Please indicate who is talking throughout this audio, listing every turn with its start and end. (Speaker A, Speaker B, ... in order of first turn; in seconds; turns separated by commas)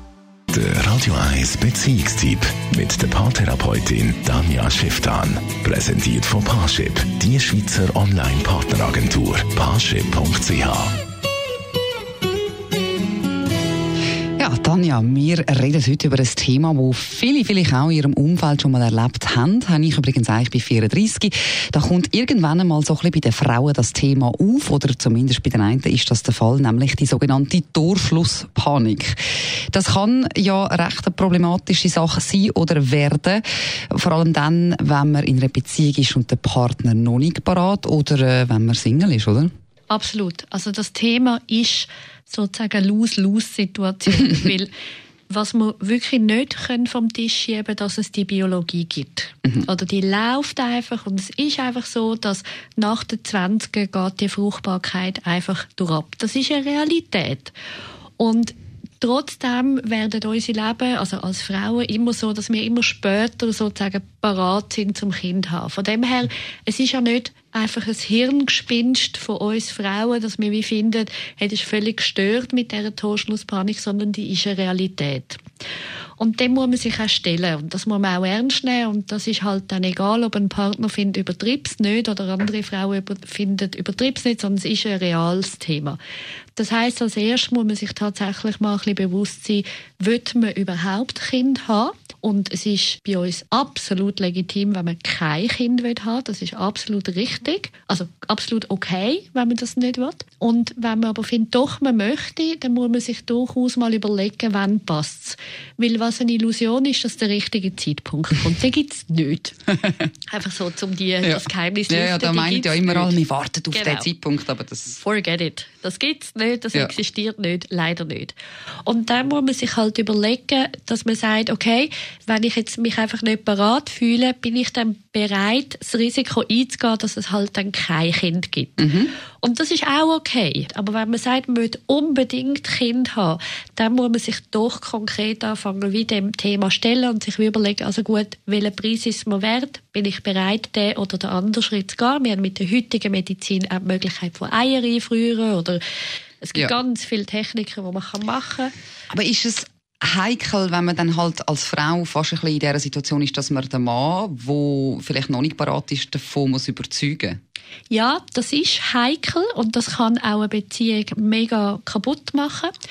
Speaker A: 0.5-10.9, Speaker B: 14.4-39.5, Speaker C: 39.9-44.7, Speaker C: 45.3-57.5, Speaker C: 58.2-75.4, Speaker C: 76.2-86.0, Speaker C: 86.5-109.7, Speaker C: 110.3-113.2, Speaker B: 111.2-115.0, Speaker C: 113.7-114.1, Speaker C: 115.0-118.3, Speaker C: 118.8-145.8, Speaker B: 128.8-129.1, Speaker C: 146.4-148.7, Speaker B: 149.1-157.4, Speaker C: 157.9-162.7